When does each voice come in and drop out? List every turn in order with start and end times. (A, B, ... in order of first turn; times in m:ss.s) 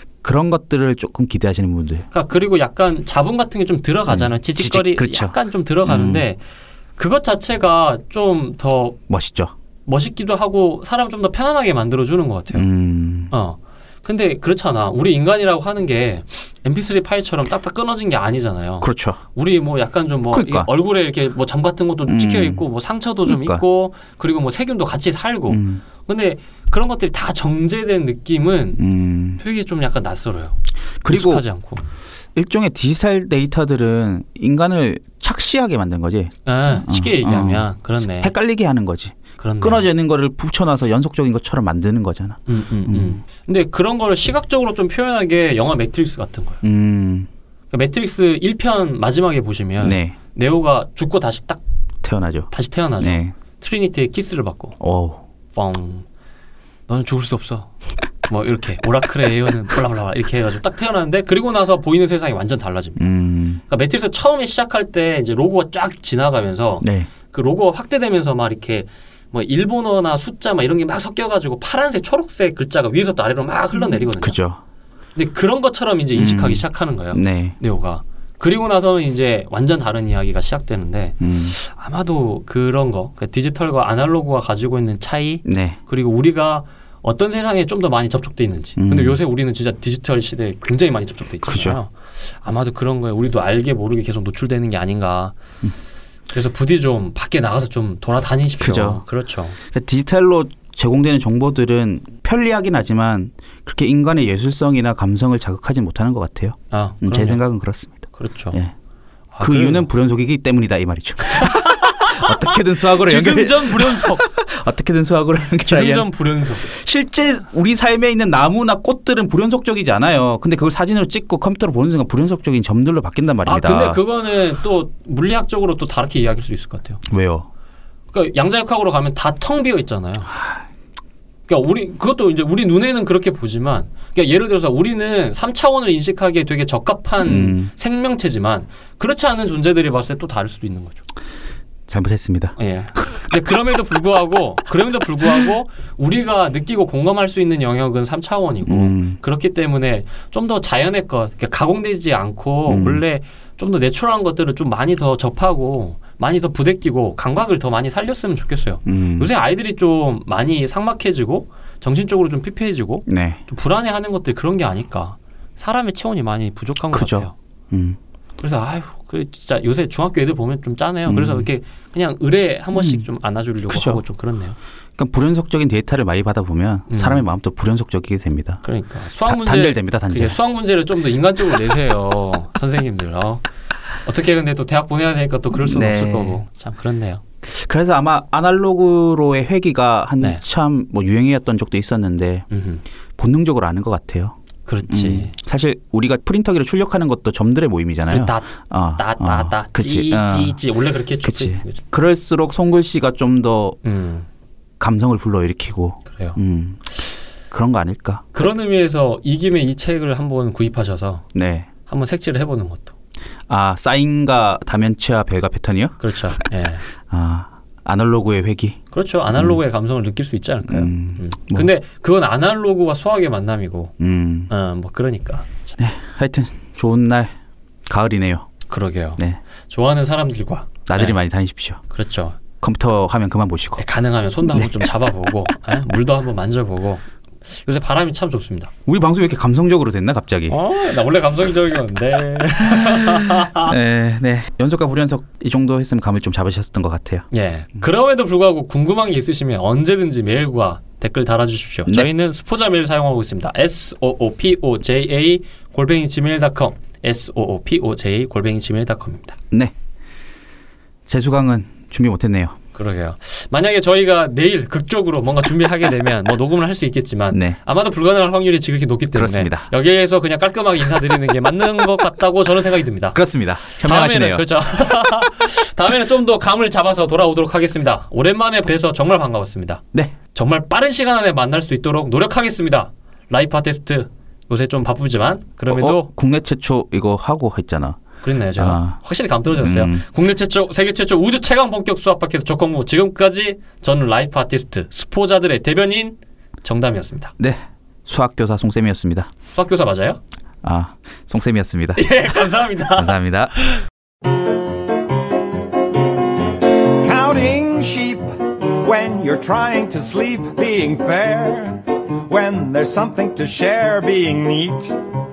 0:00.2-0:02.1 A
0:02.1-0:06.4 B
0:04.1-0:06.2 A
0:07.0-0:09.0 B
0:09.1-0:09.5 A
0:09.8-0:12.7 B
0:12.5-0:13.3 A
0:13.3-0:28.8 B
0:18.8-0:19.2 A
0:20.3-0:20.7 A
0:22.1-0:22.6 A
0:23.2-0:23.6 A
0:25.5-0:25.8 A
0:28.8-0:29.4 A
0:29.4-0:30.6 B
0:31.0-0:31.4 A
0:31.1-0:31.8 B
0:32.3-0:43.2 A
0:36.4-0:38.3 B
0:39.4-0:39.9 B
0:42.5-0:46.6 B
0:46.6-0:47.3 A
0:47.7-0:51.6 B
0:49.8-0:50.2 A
0:52.0-0:52.5 A
0:52.5-0:54.8 B
0:53.0-0:53.3 A
0:54.8-0:55.2 A
0:55.5-0:56.0 B
0:56.9-0:57.7 B
0:58.2-1:03.0 B
1:03.0-1:03.6 A
1:03.7-1:14.4 B
1:06.8-1:07.1 A
1:14.0-1:14.6 A
1:15.2-1:35.3 B
1:16.1-1:17.6 A
1:21.2-1:21.6 A
1:25.4-1:25.8 A
1:28.8-1:29.2 A
1:31.4-1:31.8 A
1:36.3-1:39.6 B
1:38.6-1:39.0 A
1:39.6-1:48.7 A
1:46.7-1:47.4 B
1:48.2-1:48.6 B
1:49.3-1:49.9 B
1:49.4-2:04.0 A
1:51.3-1:54.2 B
1:55.6-1:56.7 B
2:03.4-2:07.0 B
2:07.1-2:07.5 A
2:08.1-2:10.3 B
2:11.5-2:21.0 B
2:17.2-2:17.7 A
2:21.9-2:22.6 A
2:22.6-2:47.3 B
2:28.6-2:29.2 A
2:32.7-2:33.0 A
2:38.8-2:39.3 A
2:43.1-2:43.4 A
2:46.9-2:48.0 A
2:48.4-2:54.6 B
2:51.1-2:51.5 A
2:52.7-2:53.0 A
2:53.7-2:54.0 A
2:55.0-2:58.6 A
2:56.9-2:57.2 B
2:58.6-3:03.4 B
2:59.2-3:00.4 A
3:04.0-3:07.2 B
3:05.5-3:06.4 A
3:07.4-3:12.4 A
3:12.5-3:12.8 B
3:13.2-3:14.4 A
3:14.6-3:15.3 B
3:14.9-3:20.6 A
3:18.1-3:21.8 B
3:21.2-3:23.8 A
3:23.8-3:24.3 B
3:24.8-3:26.9 A
3:26.1-3:26.4 B
3:27.5-3:28.3 A
3:28.3-3:31.2 B
3:31.3-3:31.7 A
3:31.9-3:32.9 B
3:33.5-3:36.4 A
3:36.0-3:36.8 B
3:37.0-3:38.8 A
3:38.9-3:43.9 B
3:39.3-3:39.6 A
3:40.7-3:41.7 A
3:44.0-3:44.5 A
3:44.5-3:45.8 B
3:45.8-3:47.3 A
3:47.9-3:48.5 A
3:48.7-3:51.2 B
3:50.9-3:51.8 A
3:51.9-3:52.4 B
3:52.6-3:53.8 A
3:53.8-3:58.7 B
3:54.5-3:54.9 A
3:58.8-4:00.6 A
4:00.5-4:03.7 B
4:02.6-4:07.2 A
4:07.3-4:19.4 B
4:21.1-4:22.6 A
4:22.7-4:33.2 B
4:27.3-4:27.6 A
4:29.1-4:29.7 A
4:33.1-4:34.4 A
4:33.7-4:46.1 B
4:45.7-4:48.0 A
4:48.2-4:57.3 B
4:48.5-4:49.0 A
4:49.5-4:50.0 A
4:57.4-4:59.3 A
4:59.5-5:00.2 B
5:00.6-5:02.2 A
5:02.0-5:03.8 B
5:02.9-5:03.5 A
5:06.8-5:15.0 C